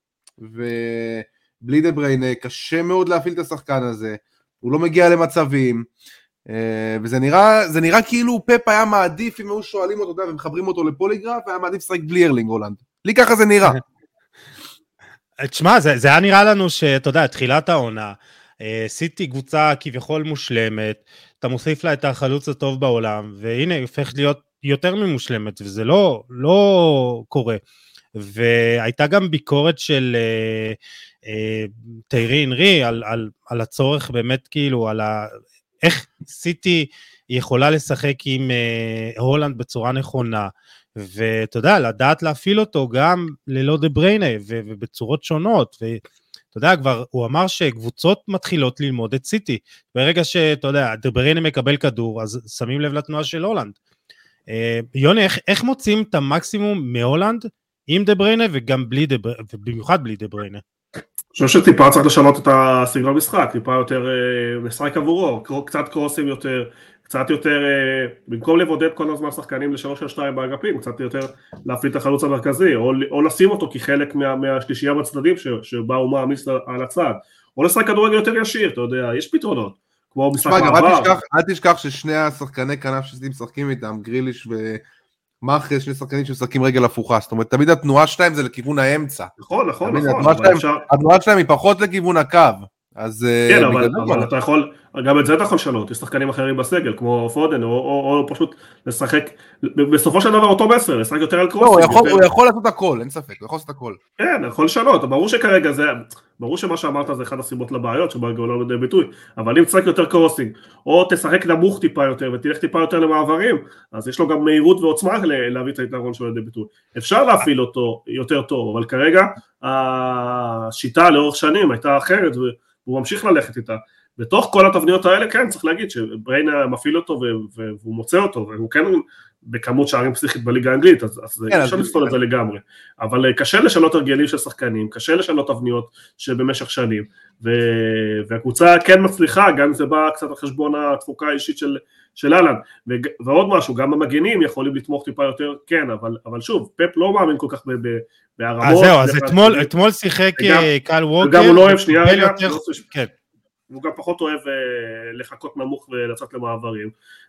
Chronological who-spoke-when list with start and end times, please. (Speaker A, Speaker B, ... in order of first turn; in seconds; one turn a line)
Speaker A: 0.4-5.9
Speaker A: 6.5-13.8
Speaker B: 15.4-27.6
Speaker B: 28.2-46.0
Speaker B: 46.5-53.8
Speaker B: 54.5-60.6
Speaker C: 61.4-81.1
Speaker A: 80.4-84.8
Speaker A: 85.4-89.3
Speaker C: 89.4-90.8
Speaker A: 89.8-94.3
Speaker C: 93.5-102.2
Speaker A: 101.6-104.0
Speaker C: 104.2-149.7
Speaker A: 131.5-132.2
Speaker B: 148.6-153.1
Speaker C: 150.4-150.7
Speaker C: 151.2-152.8
Speaker C: 153.7-156.9